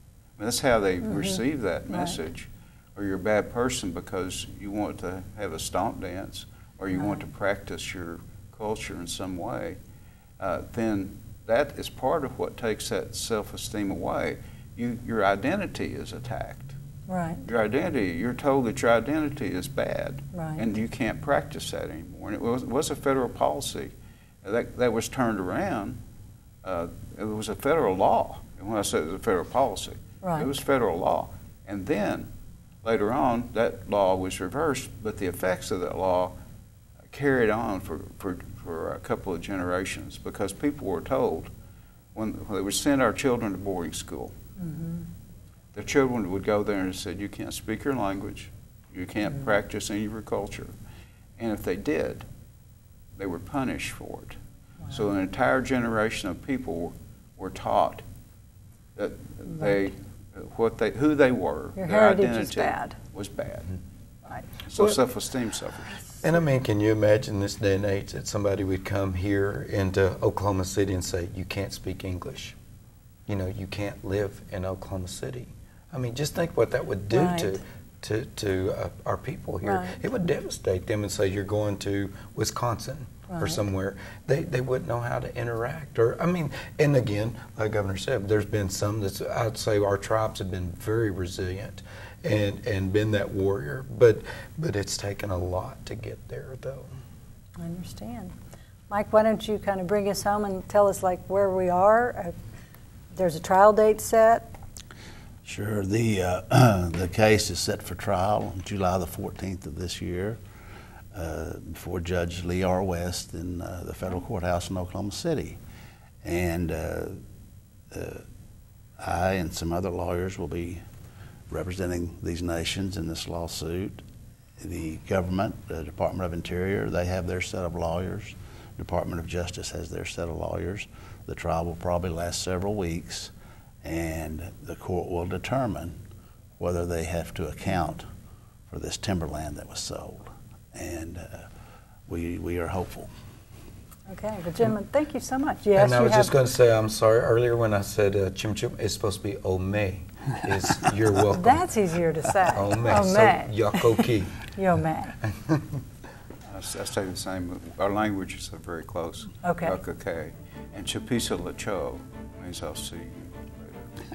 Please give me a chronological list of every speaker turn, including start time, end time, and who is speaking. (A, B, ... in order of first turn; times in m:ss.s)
0:00.4-0:09.8 A
0:01.0-0:02.2 B
0:07.0-0:07.2 B
0:10.4-0:16.8 A
0:17.1-0:17.4 B
0:17.4-0:26.0 A
0:20.3-0:20.7 B
0:26.6-0:32.3 A
0:30.2-0:30.6 B
0:32.8-0:36.4 A
0:37.1-0:41.5 A
0:42.1-0:44.3 A
0:44.6-0:45.0 B
0:45.7-0:50.7 A
0:51.4-0:52.2 A
0:53.2-0:54.4 A
0:54.9-0:58.0 A
0:59.0-1:03.7 A
1:01.8-1:03.0 B
1:04.6-1:06.0 A
1:06.2-1:12.6 C
1:13.3-1:36.9 C
1:17.1-1:17.6 B
1:19.6-1:20.0 B
1:23.3-1:23.6 B
1:37.6-1:38.3 B
1:38.9-1:42.3 B
1:43.1-1:44.5 B
1:45.4-1:50.4 D
1:51.1-1:55.6 D
1:56.2-1:57.2 D
1:57.9-1:58.2 D
1:59.0-2:00.8 D
2:01.5-2:04.0 D
2:04.6-2:13.3 D
2:13.8-2:15.9 D
2:16.6-2:18.0 D
2:18.7-2:21.4 D
2:22.1-2:23.1 D
2:24.1-2:26.3 B
2:25.7-2:31.6 C
2:31.3-2:35.2 B
2:32.4-2:34.4 C
2:35.2-2:35.8 C
2:36.5-2:43.8 A
2:39.4-2:39.8 B